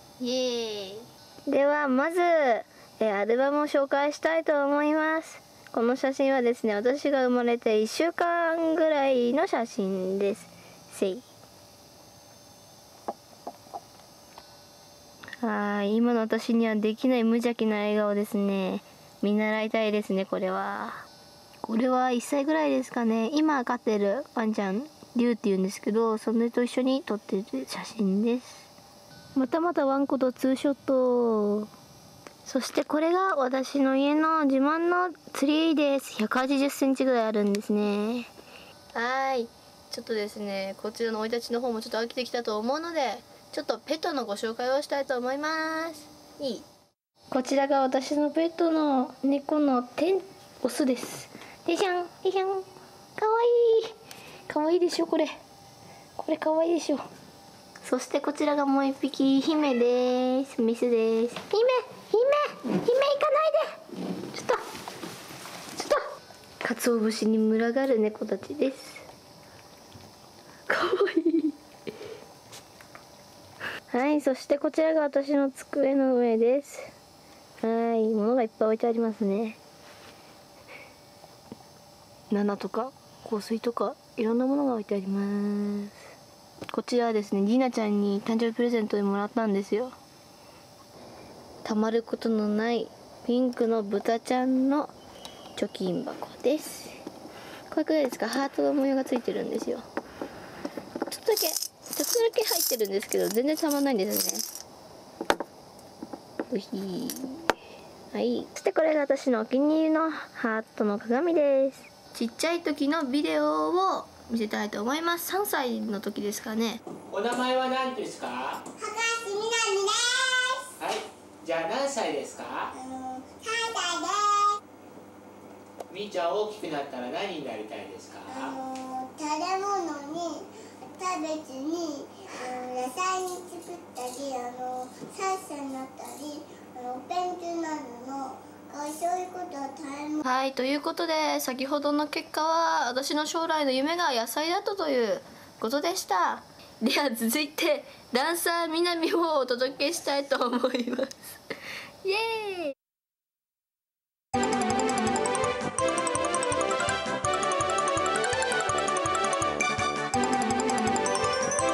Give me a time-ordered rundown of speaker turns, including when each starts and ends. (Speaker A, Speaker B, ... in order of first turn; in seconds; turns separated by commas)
Speaker A: 0.2-11.2, Speaker A: 15.4-21.1, Speaker A: 21.6-28.7, Speaker A: 29.3-31.7, Speaker A: 32.4-38.3, Speaker A: 38.9-46.6, Speaker A: 47.3-53.9, Speaker A: 54.5-55.4, Speaker A: 56.1-57.0, Speaker A: 57.8-63.8, Speaker A: 64.3-64.6, Speaker A: 65.7-66.0, Speaker A: 66.6-69.0, Speaker A: 70.7-71.5, Speaker A: 73.9-76.9, Speaker A: 77.6-79.6, Speaker A: 82.3-85.9, Speaker A: 86.7-89.9, Speaker A: 91.6-94.9, Speaker A: 95.5-97.0, Speaker A: 97.7-99.8, Speaker A: 101.1-104.4, Speaker A: 106.5-107.5, Speaker A: 108.1-116.8, Speaker B: 117.1-118.7, Speaker C: 118.8-120.7, Speaker B: 120.8-122.7, Speaker C: 122.7-124.6, Speaker B: 125.9-128.6, Speaker C: 128.3-140.2, Speaker A: 140.2-151.4, Speaker A: 152.0-152.7